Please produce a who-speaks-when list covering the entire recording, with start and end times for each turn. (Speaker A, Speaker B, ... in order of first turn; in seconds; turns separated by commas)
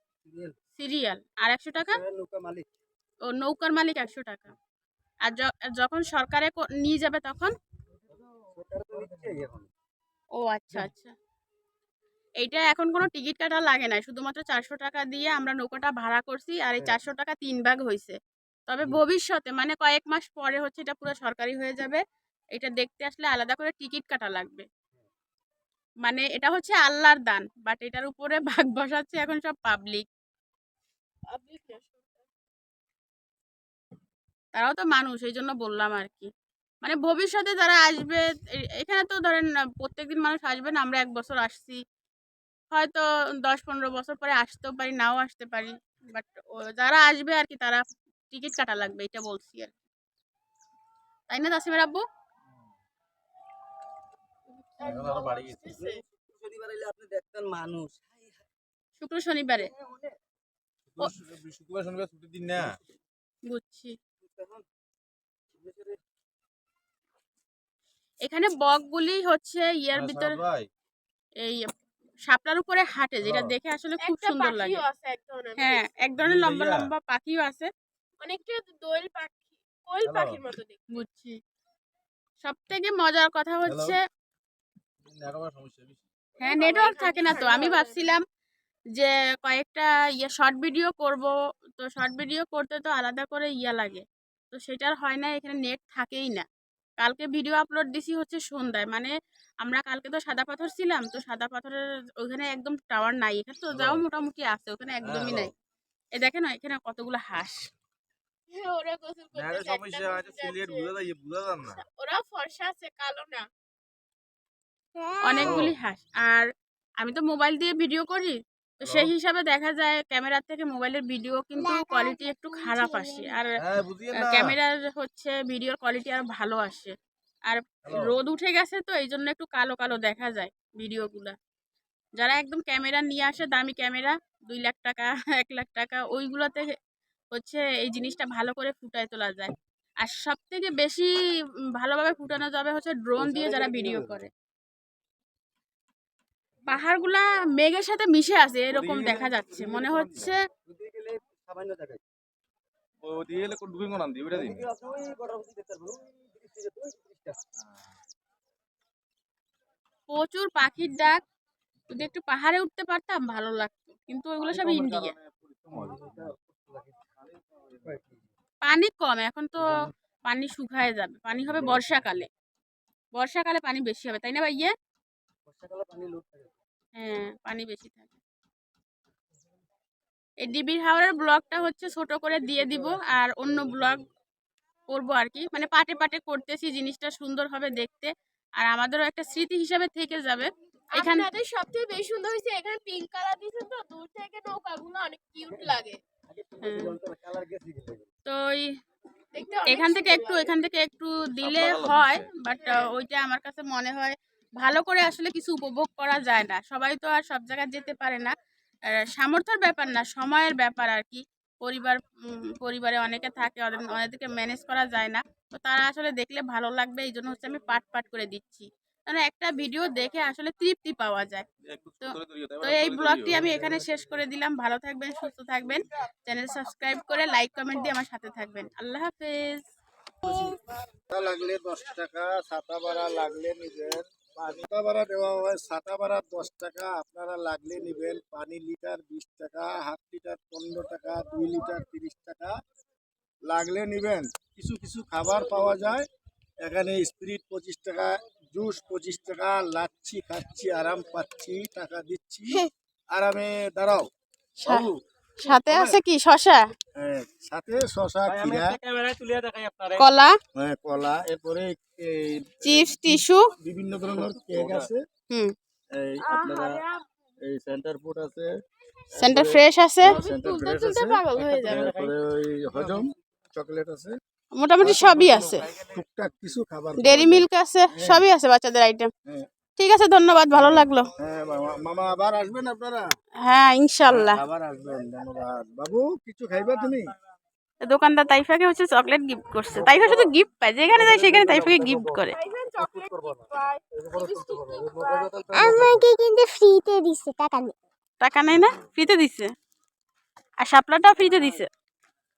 Speaker A: 0.2-0.5, Speaker B: 0.8-2.0, Speaker A: 1.9-2.6, Speaker B: 3.2-4.5, Speaker B: 5.2-7.5, Speaker A: 8.5-9.7, Speaker B: 10.4-11.1, Speaker B: 12.4-18.2, Speaker B: 18.7-22.0, Speaker B: 22.5-24.6, Speaker B: 26.0-30.1, Speaker C: 31.3-32.3, Speaker B: 34.5-36.3, Speaker B: 36.8-41.8, Speaker B: 42.7-49.7, Speaker B: 51.3-52.0, Speaker C: 54.8-56.0, Speaker D: 54.8-55.8, Speaker A: 55.8-58.4, Speaker B: 59.0-59.7, Speaker A: 59.8-60.1, Speaker D: 61.0-62.8, Speaker B: 63.5-63.9, Speaker A: 64.2-64.6, Speaker A: 65.6-66.0, Speaker B: 68.2-70.4, Speaker D: 69.9-70.7, Speaker B: 72.3-74.8, Speaker D: 73.2-73.5, Speaker C: 74.0-75.9, Speaker B: 75.6-77.7, Speaker D: 76.2-76.9, Speaker C: 78.2-80.8, Speaker D: 80.0-80.4, Speaker B: 80.9-81.4, Speaker B: 82.4-84.0, Speaker D: 83.7-84.0, Speaker D: 85.1-86.1, Speaker C: 86.4-88.1, Speaker B: 86.4-88.2, Speaker B: 88.9-96.5, Speaker B: 97.0-105.5, Speaker D: 103.7-104.0, Speaker D: 105.0-105.5, Speaker B: 106.1-107.6, Speaker C: 108.5-110.9, Speaker D: 109.3-111.8, Speaker C: 111.6-113.5, Speaker E: 115.0-115.4, Speaker B: 115.2-116.5, Speaker D: 115.4-115.7, Speaker B: 117.0-123.6, Speaker D: 118.8-119.1, Speaker E: 121.7-123.4, Speaker D: 123.6-124.5, Speaker B: 124.1-126.9, Speaker B: 127.5-131.3, Speaker D: 127.8-128.1, Speaker B: 132.2-136.7, Speaker B: 137.3-141.1, Speaker B: 141.8-144.3, Speaker A: 143.2-144.2, Speaker B: 146.7-150.4, Speaker D: 148.7-150.3, Speaker A: 150.7-152.0, Speaker D: 153.0-154.7, Speaker A: 154.3-157.4, Speaker B: 160.1-161.2, Speaker B: 161.9-165.1, Speaker D: 164.5-166.3, Speaker A: 165.7-167.0, Speaker D: 167.2-168.0, Speaker A: 167.8-168.1, Speaker B: 168.6-169.7, Speaker B: 170.3-172.3, Speaker B: 173.2-174.7, Speaker A: 175.5-176.5, Speaker B: 176.9-178.2, Speaker B: 180.4-184.0, Speaker B: 184.9-191.3, Speaker C: 190.9-196.0, Speaker A: 196.3-198.1, Speaker B: 196.6-197.0, Speaker B: 198.2-198.7, Speaker C: 199.3-200.5, Speaker B: 199.7-208.3, Speaker D: 201.4-202.3, Speaker B: 208.9-221.4, Speaker D: 221.7-223.6, Speaker B: 222.0-229.6, Speaker F: 231.1-242.5, Speaker F: 243.5-246.1, Speaker F: 246.6-254.1, Speaker B: 254.6-254.9, Speaker F: 254.6-254.9, Speaker B: 255.4-256.6, Speaker F: 255.5-256.0, Speaker F: 257.0-258.8, Speaker D: 258.2-260.1, Speaker B: 259.9-260.4, Speaker F: 260.5-265.0, Speaker B: 262.6-263.5, Speaker D: 264.1-264.9, Speaker F: 265.9-266.8, Speaker C: 266.2-267.0, Speaker F: 267.4-268.5, Speaker F: 269.2-274.1, Speaker B: 269.2-270.2, Speaker C: 270.1-271.9, Speaker D: 271.5-272.1, Speaker B: 274.6-275.6, Speaker F: 274.8-278.3, Speaker B: 277.0-279.1, Speaker B: 279.8-281.1, Speaker F: 280.5-283.1, Speaker B: 283.4-284.4, Speaker F: 284.1-287.1, Speaker B: 287.8-292.4, Speaker F: 291.0-292.1, Speaker C: 292.3-295.8, Speaker F: 294.8-296.0, Speaker A: 295.5-297.6, Speaker E: 296.1-297.7, Speaker B: 298.2-299.5, Speaker B: 300.6-301.7